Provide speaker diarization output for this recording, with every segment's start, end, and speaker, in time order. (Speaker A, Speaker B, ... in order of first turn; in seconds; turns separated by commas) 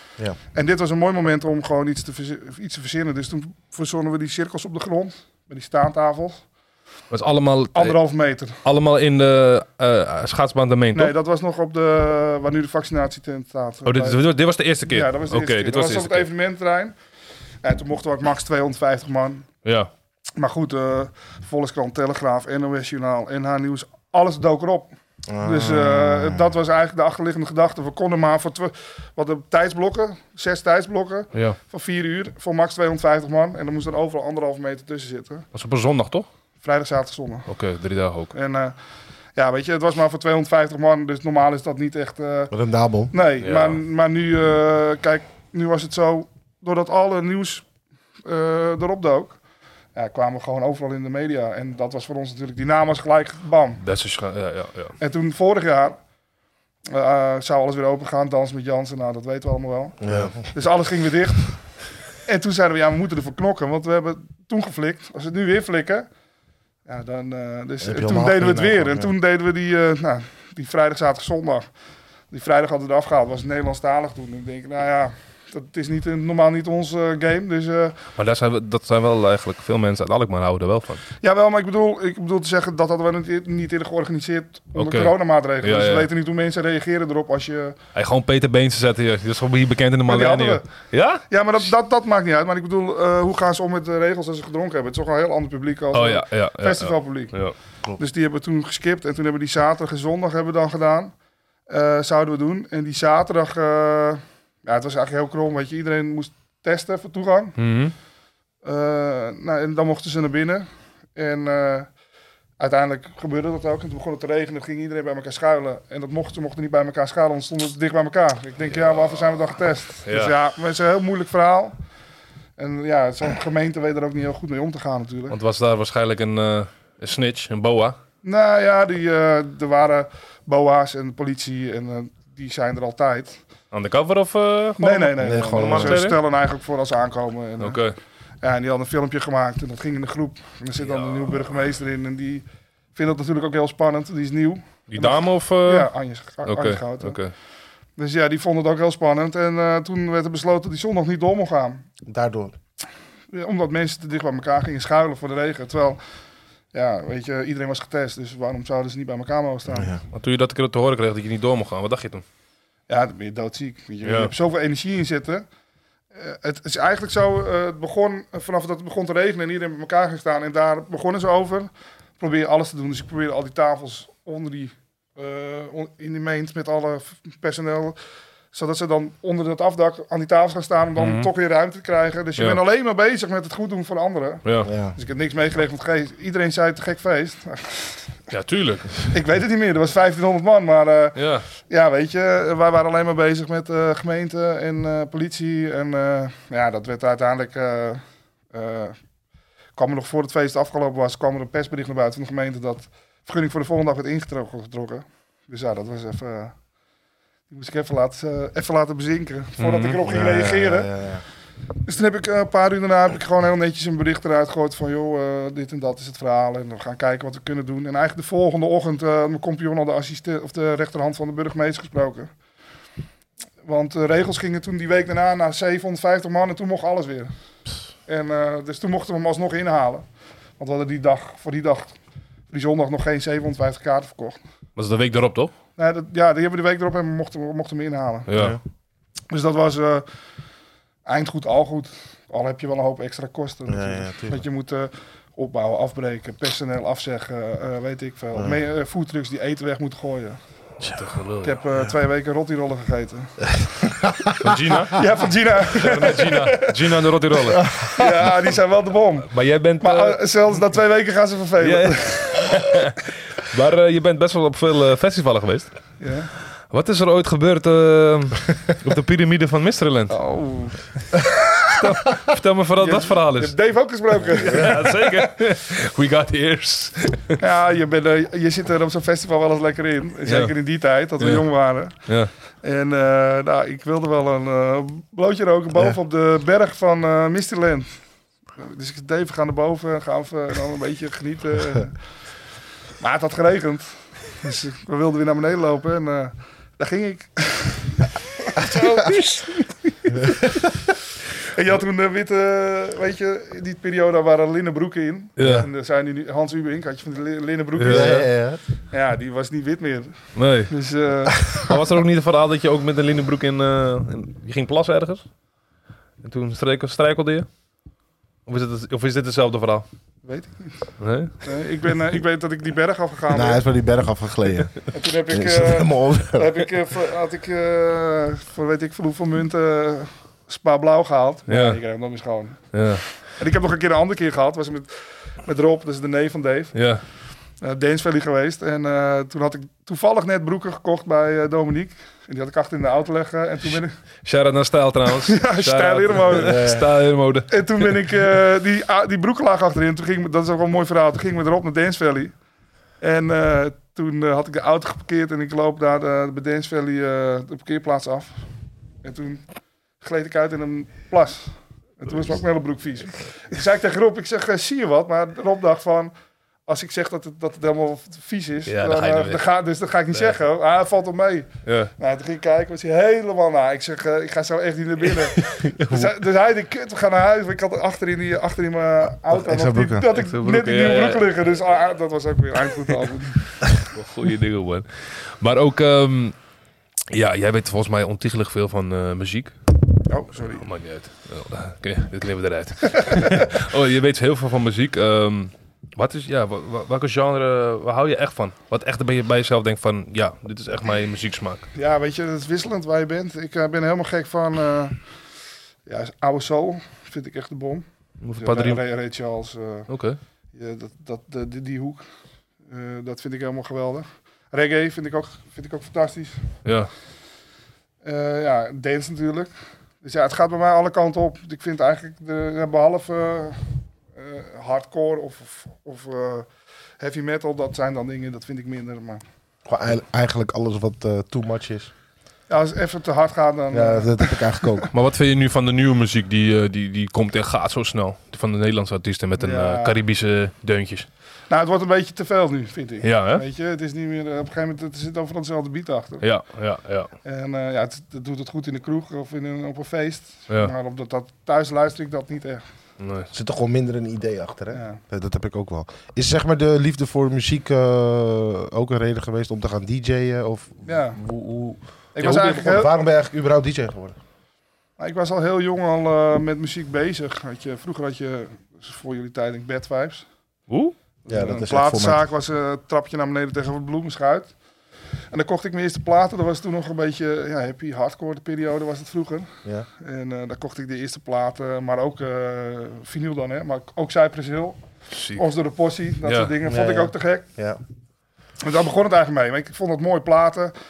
Speaker A: 0.5-6.5, Speaker B: 7.1-11.1, Speaker A: 7.7-8.6, Speaker A: 10.9-14.2, Speaker B: 13.8-16.3, Speaker A: 14.9-16.9, Speaker A: 17.6-19.5, Speaker B: 19.6-19.9, Speaker A: 20.4-35.5, Speaker C: 25.3-26.5, Speaker B: 35.5-36.3, Speaker A: 36.6-37.5, Speaker B: 37.5-38.3, Speaker A: 38.3-38.8, Speaker A: 39.4-42.5, Speaker C: 42.5-43.1, Speaker A: 43.1-47.7, Speaker B: 43.4-43.8, Speaker A: 48.2-49.4, Speaker A: 49.9-53.8, Speaker B: 53.8-55.0, Speaker A: 55.0-56.0, Speaker A: 56.9-66.1, Speaker C: 60.0-60.4, Speaker A: 66.9-71.7, Speaker C: 67.8-69.1, Speaker A: 72.3-78.0, Speaker B: 78.2-81.0, Speaker A: 81.2-87.8, Speaker B: 84.8-86.1, Speaker B: 87.9-91.2, Speaker A: 90.1-101.1, Speaker B: 95.9-97.5, Speaker A: 101.7-107.6, Speaker B: 107.6-107.9, Speaker A: 108.6-111.9, Speaker A: 112.6-121.8, Speaker B: 118.7-119.2, Speaker B: 120.1-120.3, Speaker A: 122.6-125.4, Speaker B: 125.3-128.0, Speaker A: 128.2-133.4, Speaker B: 133.7-136.2, Speaker A: 134.8-137.8, Speaker C: 135.2-136.1, Speaker B: 137.6-137.9, Speaker A: 138.4-147.2, Speaker B: 140.8-141.4, Speaker B: 144.9-145.9, Speaker B: 146.4-147.3, Speaker A: 148.0-151.8, Speaker C: 152.1-152.6, Speaker A: 153.3-156.0, Speaker A: 156.7-159.9, Speaker C: 159.7-160.0, Speaker B: 160.1-162.2, Speaker A: 162.9-165.5, Speaker B: 164.0-164.3, Speaker A: 166.1-178.0, Speaker A: 178.5-188.2, Speaker B: 181.0-181.3, Speaker B: 184.4-184.7, Speaker C: 184.6-185.0, Speaker B: 188.3-189.1, Speaker A: 189.1-199.0, Speaker B: 191.2-191.4, Speaker A: 199.8-206.6, Speaker A: 207.5-210.9, Speaker B: 209.6-210.0, Speaker C: 210.1-211.2, Speaker A: 211.8-222.3, Speaker A: 223.6-227.3, Speaker A: 228.1-230.1, Speaker A: 230.6-231.9, Speaker A: 232.5-234.4, Speaker B: 234.8-235.5, Speaker A: 235.8-238.3, Speaker B: 238.3-238.6, Speaker C: 238.3-238.6, Speaker A: 239.3-240.1, Speaker A: 241.1-250.4, Speaker C: 243.7-244.4, Speaker B: 250.9-251.6, Speaker A: 251.4-253.6, Speaker C: 253.8-254.3, Speaker B: 254.4-255.1, Speaker A: 254.9-256.7, Speaker B: 255.6-257.8, Speaker C: 257.6-258.1, Speaker A: 258.0-259.3, Speaker B: 259.3-260.2, Speaker A: 259.8-262.5, Speaker B: 261.6-265.9, Speaker A: 266.0-266.3, Speaker B: 266.7-270.2, Speaker A: 270.1-271.2, Speaker B: 271.8-273.6, Speaker A: 272.8-275.3, Speaker B: 274.4-277.4, Speaker A: 277.4-287.9, Speaker B: 280.3-280.5, Speaker B: 281.2-282.3, Speaker A: 288.6-292.1, Speaker A: 293.0-300.5, Speaker C: 298.6-298.9, Speaker A: 301.5-308.3, Speaker B: 305.4-305.7, Speaker C: 305.4-305.7, Speaker B: 307.8-308.3, Speaker C: 307.9-308.6, Speaker A: 308.9-311.4, Speaker B: 310.4-310.7, Speaker B: 311.5-315.3, Speaker B: 316.2-317.5, Speaker B: 318.5-319.9, Speaker A: 320.2-323.6, Speaker B: 321.0-321.4, Speaker C: 323.3-326.6, Speaker A: 324.9-336.8, Speaker B: 331.5-331.8, Speaker B: 332.7-333.1, Speaker B: 336.7-337.0, Speaker A: 337.6-344.0, Speaker B: 343.7-348.0, Speaker A: 345.2-346.7, Speaker C: 346.3-346.9, Speaker A: 347.5-352.4, Speaker A: 353.0-358.5, Speaker A: 359.0-366.1, Speaker A: 366.7-383.6, Speaker B: 368.7-369.4, Speaker B: 371.6-371.9, Speaker B: 375.4-376.1, Speaker C: 379.3-380.1, Speaker B: 380.1-381.3, Speaker B: 383.8-386.4, Speaker B: 387.1-389.6, Speaker A: 390.1-390.7, Speaker B: 390.5-401.7, Speaker A: 393.0-393.4, Speaker A: 401.7-405.0, Speaker A: 405.9-407.9, Speaker B: 408.2-408.8, Speaker A: 408.4-409.9, Speaker B: 409.9-410.2, Speaker A: 410.5-412.0, Speaker A: 412.7-416.4, Speaker B: 416.6-416.9, Speaker A: 418.0-419.5, Speaker A: 420.0-423.6, Speaker A: 424.1-426.5, Speaker A: 427.0-429.2, Speaker C: 429.7-431.9, Speaker A: 432.5-434.9, Speaker C: 433.7-434.9, Speaker B: 434.9-441.1, Speaker A: 439.4-440.0, Speaker A: 441.5-446.3, Speaker B: 443.0-443.4, Speaker B: 446.2-447.1, Speaker A: 447.2-452.6, Speaker B: 453.0-453.3, Speaker C: 453.3-464.2, Speaker A: 454.7-455.0, Speaker A: 460.9-461.2, Speaker A: 462.1-462.9, Speaker A: 465.0-470.3, Speaker B: 470.7-470.9, Speaker A: 471.3-474.5, Speaker C: 471.3-472.3, Speaker A: 475.3-484.8, Speaker B: 485.1-485.4, Speaker A: 485.3-487.5, Speaker B: 486.2-486.6, Speaker A: 488.6-490.7